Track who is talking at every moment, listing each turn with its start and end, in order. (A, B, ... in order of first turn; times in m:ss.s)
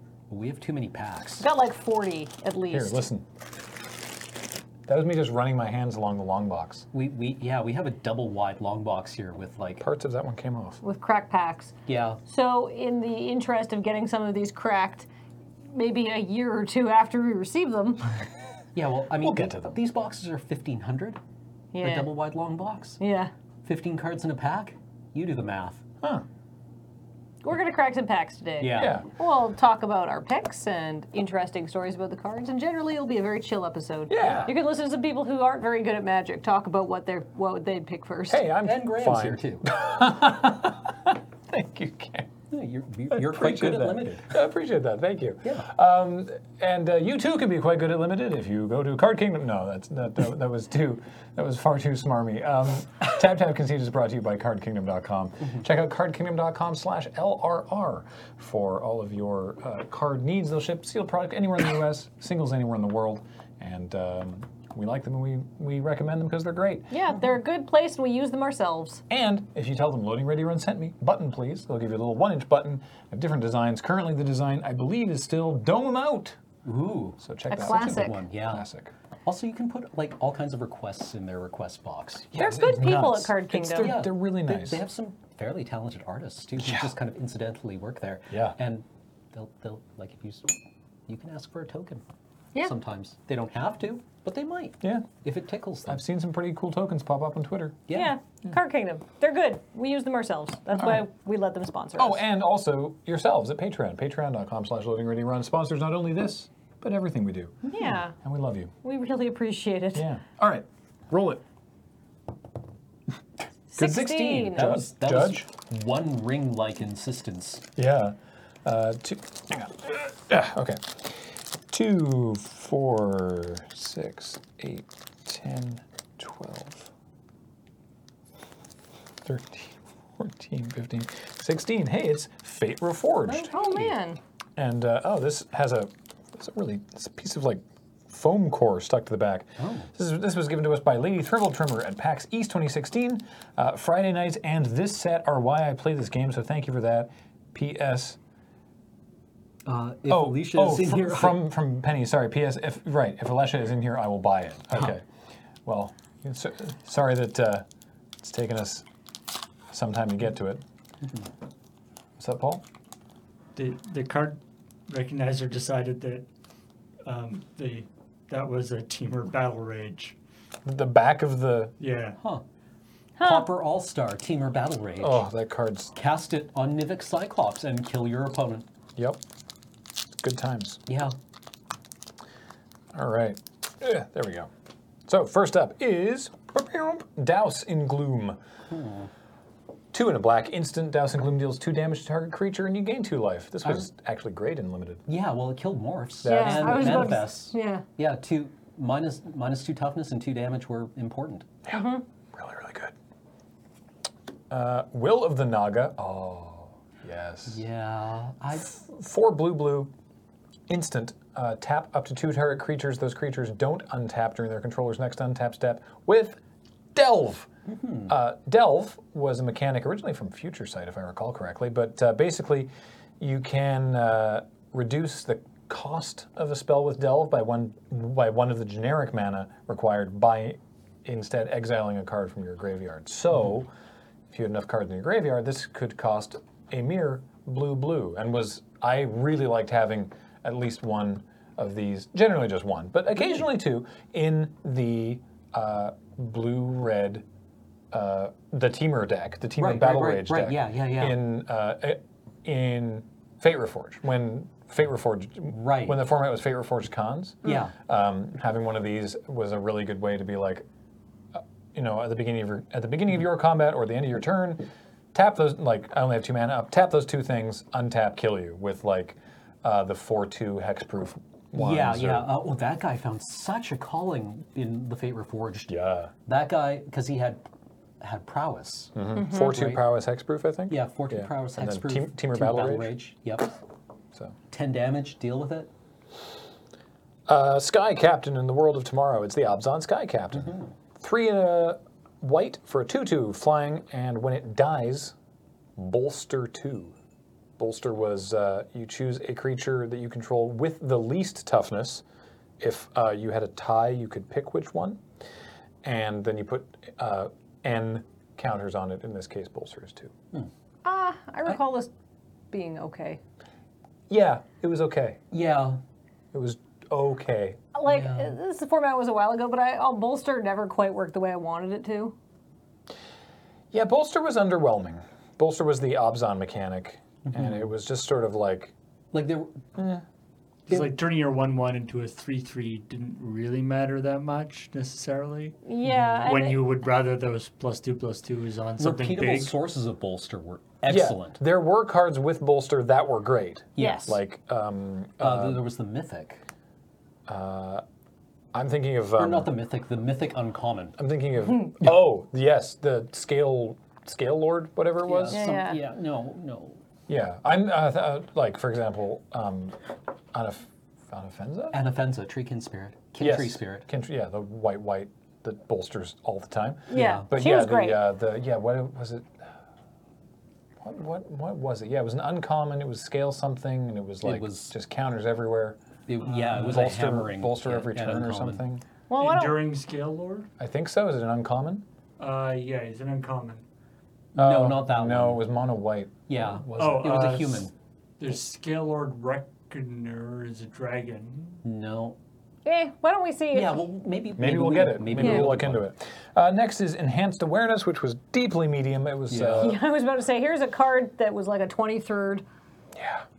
0:00.3-0:01.4 A
0:01.4-0:03.0 B
0:02.7-0:03.2 C
0:04.9-0:06.9 C
0:06.9-0:09.8 A
0:09.8-0:10.8 C
0:10.8-0:11.7 B
0:11.9-0:12.2 A
0:12.2-0:15.1 B
0:15.7-0:18.1 B
0:18.8-0:21.2 A
0:19.2-0:19.7 C
0:21.7-0:22.1 B
0:21.8-0:23.0 A
0:23.0-0:23.3 B
0:23.6-0:25.8 A
0:27.4-0:38.4 B
0:28.6-0:29.0 A
0:28.8-0:29.1 C
0:34.1-0:34.5 C
0:34.2-0:34.5 A
0:38.3-0:42.3 C
0:38.6-0:39.7 A
0:42.5-0:44.4 A
0:43.1-1:06.9 C
1:06.9-1:09.0 B
1:09.1-1:16.4 C
1:16.6-1:18.7 A
1:17.2-1:18.9 C
1:17.5-1:18.2 B
1:19.2-1:22.3 A
1:22.3-1:24.8 C
1:22.4-1:24.0 B
1:23.8-1:30.5 A
1:26.6-1:26.9 C
1:28.3-1:28.6 C
1:31.1-1:32.0 A
1:32.6-1:36.0 A
1:34.8-1:35.1 C
1:35.9-1:37.9 C
1:37.9-1:38.2 A
1:37.9-1:42.2 B
1:42.0-1:48.7 C
1:47.7-1:48.2 B
1:48.8-1:50.1 B
1:49.9-1:51.4 C
1:53.8-1:54.7 B
1:53.8-1:55.4 C
1:53.8-1:57.6 A
1:57.8-2:06.9 C
2:09.2-2:13.9 C
2:13.3-2:14.2 B
2:14.6-2:28.2 C
2:19.6-2:19.9 A
2:29.7-2:31.4 A
2:30.1-2:35.0 C
2:35.6-2:37.7 C
2:38.2-2:38.8 C
2:39.7-2:40.6 C
2:42.2-2:42.6 C
2:43.6-2:46.3 D
2:47.0-2:50.2 D
2:50.6-2:51.8 C
2:51.8-2:52.2 D
2:53.2-2:53.5 B
2:53.2-2:55.2 A
2:55.0-2:56.0 C
2:56.0-2:58.7 A
3:00.2-3:00.8 C
3:00.9-3:01.2 A
3:02.9-3:04.5 C
3:05.1-3:08.4 C
3:08.7-3:09.1 A
3:09.9-3:15.0 C
3:15.1-3:21.5 A
3:16.2-3:17.2 C
3:16.2-3:17.8 B
3:21.7-3:22.9 C
3:21.7-3:22.0 B
3:24.5-3:27.6 C
3:27.5-3:28.7 A
3:28.6-3:29.9 C
3:30.7-3:36.4 C
3:37.0-3:37.5 C
3:37.7-3:38.1 A
3:38.1-3:53.7 C
3:54.3-4:07.2 C
4:07.9-4:20.7 C
4:09.6-4:11.2 A
4:15.5-4:16.0 A
4:17.4-4:17.7 A
4:21.3-4:32.3 C
4:31.6-4:37.5 A
4:35.7-4:36.1 C
4:38.0-4:39.8 A
4:39.0-4:42.9 C
4:39.2-4:39.5 B
4:40.7-4:43.5 A
4:44.5-4:45.7 A
4:47.3-4:55.2 C
4:55.8-4:56.9 C
4:57.6-5:02.0 C
5:02.6-5:05.0 C
5:05.8-5:10.1 C
5:10.8-5:11.9 B
5:12.5-5:13.2 B
5:14.1-5:15.2 C
5:15.3-5:15.8 A
5:16.3-5:17.6 C
5:17.7-5:22.2 B
5:17.9-5:18.4 A
5:23.7-5:28.7 C
5:27.3-5:27.7 A
5:29.1-5:29.6 A
5:29.8-5:30.0 C
5:30.7-5:35.6 D
5:35.6-5:36.6 B
5:35.9-5:36.2 A
5:36.3-5:39.5 D
5:38.8-5:41.4 A
5:40.9-5:45.6 C
5:43.8-5:44.2 A
5:43.8-5:44.2 B
5:45.2-5:46.4 A
5:47.3-5:47.8 C
5:48.5-5:49.5 C
5:49.2-5:51.0 A
5:51.0-5:55.4 C
5:55.0-5:56.8 A
5:55.3-5:55.8 B
5:57.1-5:59.8 C
6:00.3-6:01.8 C
6:01.7-6:03.9 A
6:03.2-6:09.4 C
6:06.9-6:08.0 B
6:06.9-6:07.3 A
6:10.8-6:18.8 C
6:14.2-6:14.7 A
6:16.1-6:18.6 A
6:19.1-6:19.6 B
6:19.2-6:20.5 D
6:20.6-6:21.8 C
6:22.2-6:23.6 D
6:24.4-6:27.2 C
6:24.4-6:25.5 A
6:26.3-6:27.7 A
6:26.8-6:31.6 D
6:31.6-6:32.2 A
6:32.6-6:33.8 B
6:33.5-6:35.8 A
6:34.4-6:39.8 C
6:35.2-6:35.4 B
6:39.3-6:39.8 A
6:39.6-6:42.4 B
6:43.0-6:43.2 C